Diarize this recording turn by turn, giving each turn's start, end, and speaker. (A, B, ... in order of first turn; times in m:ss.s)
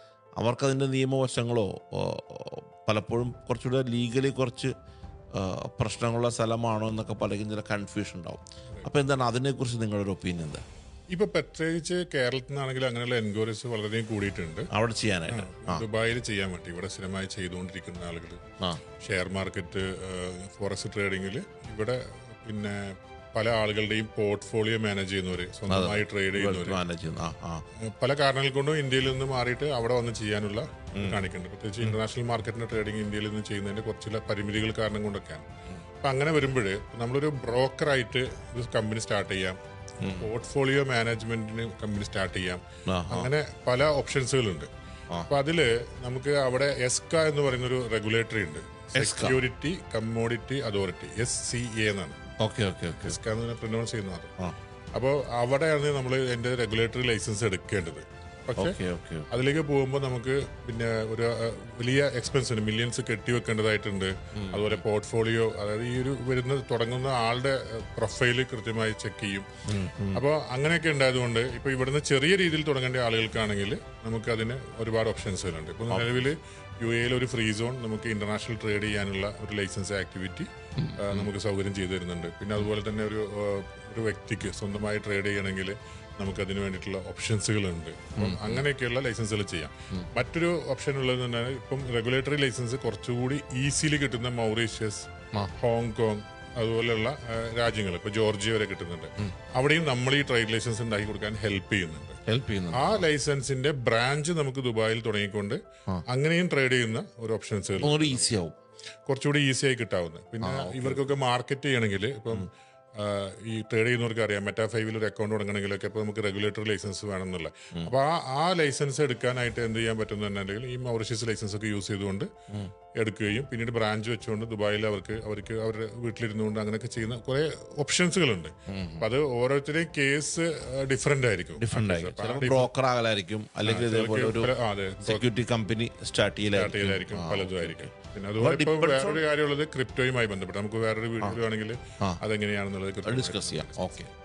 0:00.4-0:04.7 A
0:05.3-0:10.6 A
0:11.1-0:14.7 B
0:14.7-0:15.8 A
0:15.3-0:18.4 B
0:19.0-0:26.8 B
0:25.7-0:27.6 A
0:27.8-0:35.4 B
0:36.0-0:44.7 B
0:40.0-0:40.3 A
0:42.9-0:43.3 A
0:45.3-0:52.2 B
0:49.0-0:49.4 A
0:52.4-0:53.2 A
0:53.0-0:54.3 B
0:55.0-0:58.8 B
0:58.6-0:59.2 A
0:59.3-1:09.4 B
1:04.3-1:04.8 A
1:09.7-1:10.2 A
1:10.1-1:42.2 B
1:15.9-1:16.2 A
1:20.8-1:21.3 A
1:28.2-1:28.6 A
1:42.2-1:43.0 A
1:42.7-1:48.2 B
1:47.8-1:48.6 A
1:49.1-2:02.3 B
1:50.4-1:51.1 A
2:03.0-2:12.7 B
2:08.7-2:09.0 A
2:11.6-2:14.5 A
2:13.6-2:15.3 B
2:15.0-2:19.2 A
2:16.5-2:24.1 B
2:23.0-2:24.1 A